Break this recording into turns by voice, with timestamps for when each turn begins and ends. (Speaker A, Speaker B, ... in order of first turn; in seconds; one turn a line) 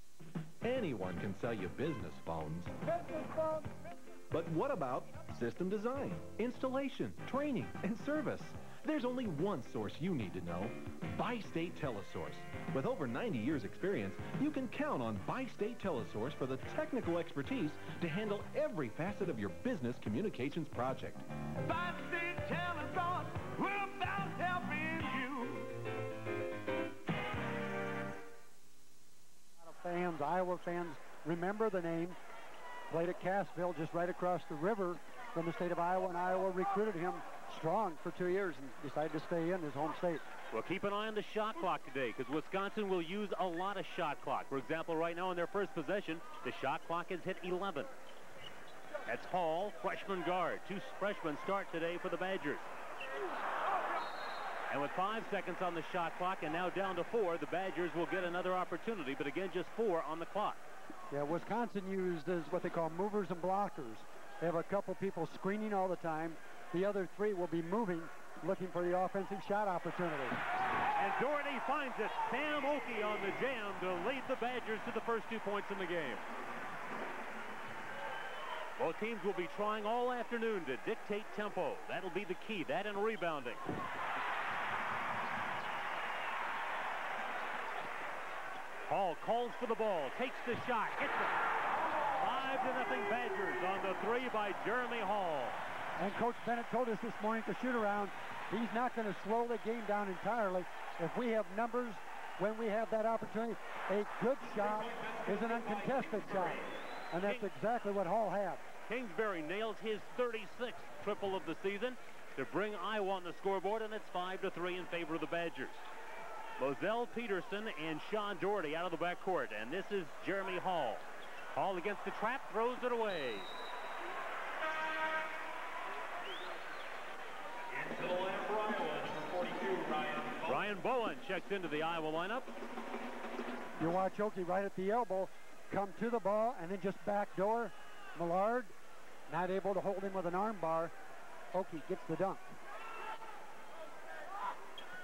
Speaker A: 0.6-3.7
Speaker A: 4.3-25.6
Speaker B: 29.6-32.2
Speaker B: 32.9-40.2
Speaker C: 40.5-47.9
Speaker C: 49.0-52.7
Speaker C: 54.7-60.6
Speaker B: 61.1-70.4
Speaker C: 71.0-76.2
Speaker C: 78.8-83.6
Speaker C: 88.9-91.4
Speaker C: 92.2-95.6
Speaker B: 96.0-108.6
Speaker D: 104.8-106.5
Speaker C: 108.9-115.8
Speaker C: 116.6-123.5
Speaker D: 127.8-130.4
Speaker C: 130.4-132.5
Speaker B: 133.8-138.7
Speaker B: 139.3-140.9
Speaker B: 141.5-142.4